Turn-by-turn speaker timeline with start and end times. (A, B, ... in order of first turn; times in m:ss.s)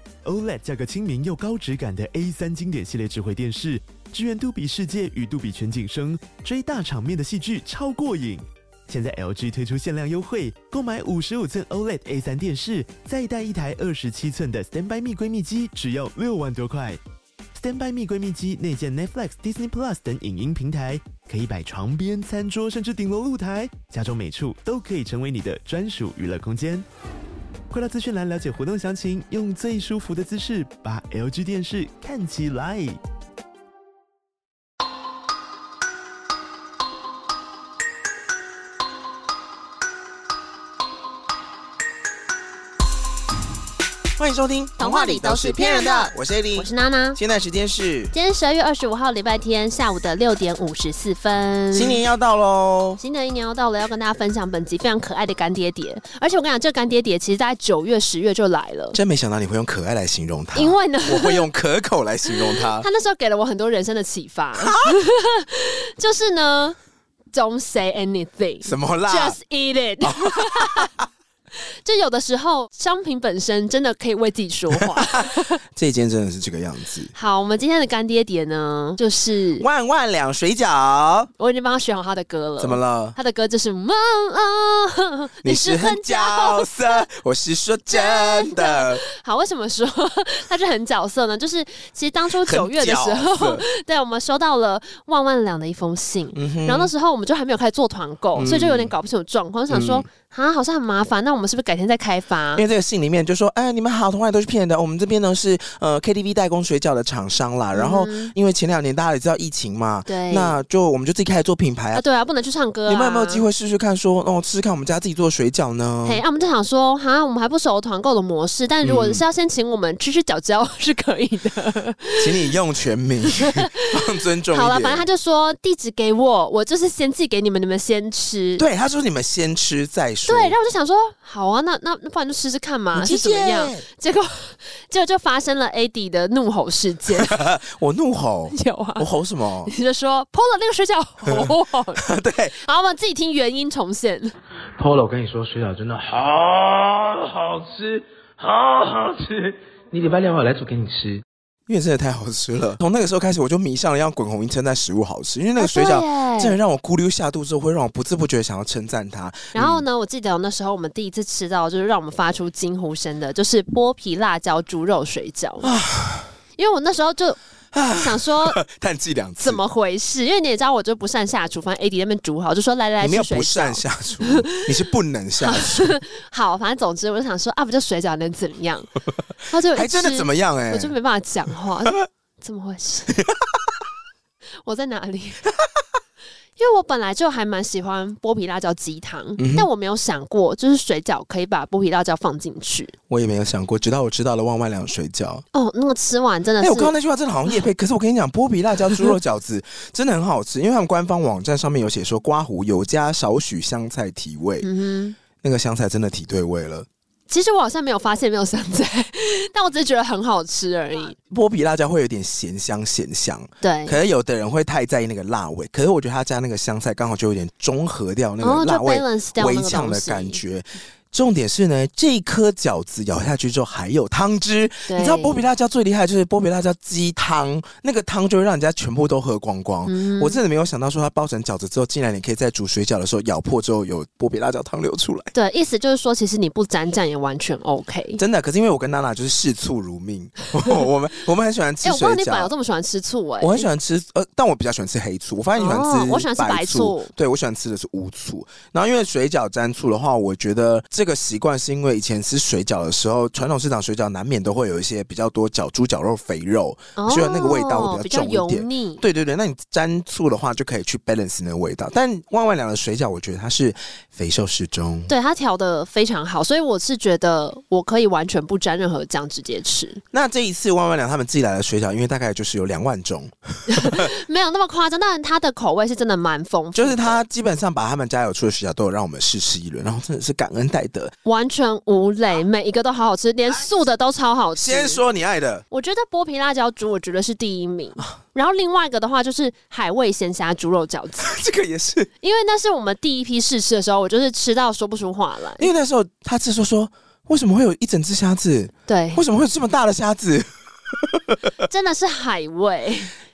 0:00.2-0:17.0 A
0:17.5-0:26.8 A
0:27.7-0:33.0 A
0:44.2-0:48.1 B
0:44.8-0:47.2 C
0:48.1-0:52.0 C
0:51.7-0:53.0 B
0:53.0-0:59.0 C
0:58.9-1:02.9 B
1:00.5-1:01.4 C
1:02.3-1:06.8 C
1:04.6-1:04.9 B
1:07.3-1:10.9 C
1:08.6-1:09.4 B
1:10.0-1:11.1 B
1:11.8-1:15.6 C
1:14.7-1:17.1 B
1:17.1-1:19.6 C
1:19.6-1:21.3 B
1:21.4-1:27.0 C
1:22.6-1:23.2 B
1:25.4-1:29.0 B
1:27.9-1:42.6 C
1:32.4-1:33.6 B
1:36.3-1:36.9 B
1:38.4-1:38.9 B
1:39.7-1:40.0 B
1:42.5-1:52.0 B
1:47.7-1:48.3 C
1:50.1-1:50.6 C
1:51.9-1:53.4 C
1:52.9-1:56.2 B
1:56.0-2:02.5 C
1:58.8-1:59.2 B
2:02.2-2:05.0 B
2:03.3-2:03.9 C
2:04.5-2:08.6 C
2:08.6-2:10.6 B
2:10.3-2:17.4 C
2:12.9-2:13.8 B
2:17.1-2:19.7 B
2:18.5-2:19.1 C
2:19.6-2:22.1 C
2:21.2-2:22.6 B
2:22.6-2:24.3 C
2:24.8-2:31.2 D
2:31.7-2:39.8 B
2:35.6-2:36.6 C
2:39.5-2:45.7 C
2:45.6-2:46.3 B
2:46.6-2:47.4 C
2:47.7-2:49.6 B
2:47.9-2:48.6 C
2:49.4-2:54.6 C
2:53.0-2:55.9 B
2:55.4-3:03.2 C
2:59.7-3:00.9 B
3:03.1-3:03.5 B
3:04.6-3:05.4 C
3:06.6-3:12.9 C
3:09.4-3:09.7 B
3:13.1-3:15.4 B
3:15.5-3:16.9 C
3:16.6-3:24.7 B
3:24.6-3:25.2 C
3:25.4-3:26.9 B
3:27.3-3:31.1 C
3:31.3-3:55.3 B
3:33.6-3:34.0 C
3:38.4-3:40.4 C
3:44.9-3:45.4 C
3:49.8-3:50.4 C
3:55.3-3:58.2 C
3:58.2-4:02.5 B
4:01.8-4:03.7 C
4:03.4-4:25.1 B
4:05.6-4:07.1 C
4:17.0-4:19.0 C
4:25.1-4:30.0 C
4:30.1-4:34.1 B
4:33.7-4:37.2 C
4:36.7-4:41.1 B
4:41.2-4:45.0 C
4:44.6-4:45.6 B
4:45.7-4:51.4 C
4:51.2-4:52.1 B
4:52.2-4:55.7 C
4:55.6-5:01.5 B
4:58.9-4:59.2 C
5:01.6-5:03.1 C